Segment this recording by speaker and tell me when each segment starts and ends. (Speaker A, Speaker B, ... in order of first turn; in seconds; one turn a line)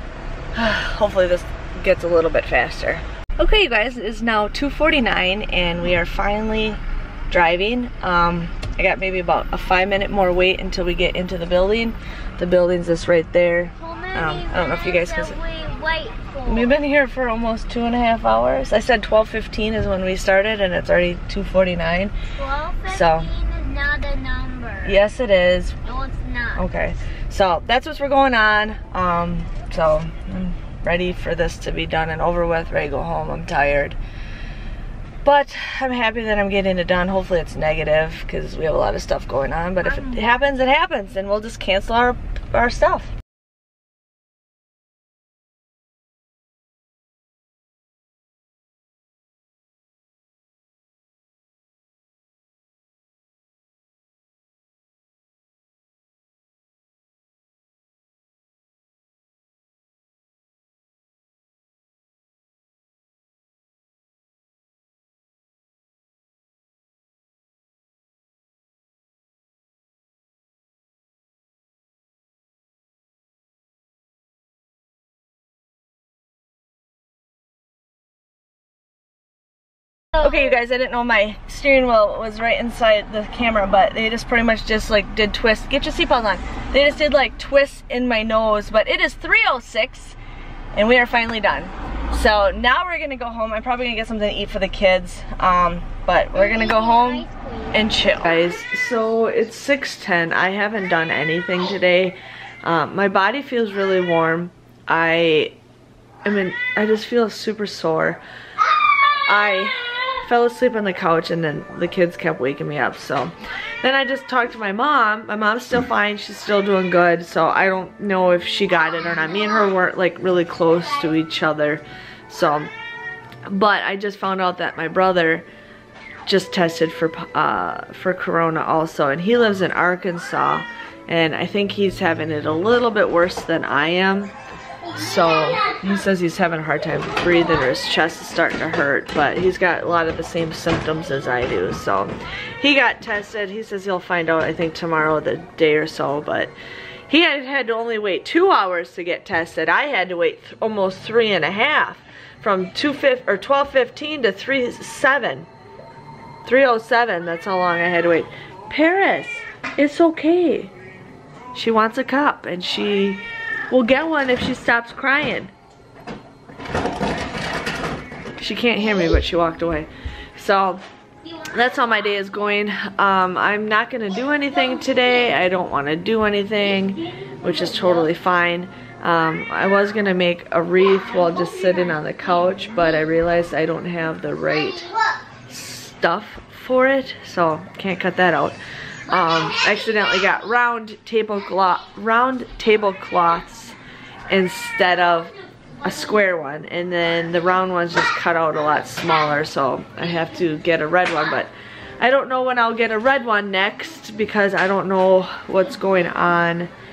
Speaker A: 0.6-15.4
Speaker B: 13.8-16.7
Speaker A: 16.5-22.1
Speaker B: 22.4-24.9
Speaker A: 22.9-23.3
Speaker A: 24.8-25.8
Speaker B: 25.9-26.6
Speaker A: 26.6-34.0
Speaker A: 35.2-43.1
Speaker A: 80.2-90.2
Speaker A: 90.8-105.5
Speaker B: 96.4-97.8
Speaker A: 106.2-108.2
Speaker A: 109.3-122.7
Speaker A: 123.5-125.5
Speaker A: 126.3-134.3
Speaker A: 134.9-146.5
Speaker A: 147.1-155.5
Speaker A: 156.4-160.7
Speaker A: 161.5-165.5
Speaker A: 168.4-170.8
Speaker A: 171.4-184.9
Speaker A: 185.5-193.8
Speaker A: 194.3-206.7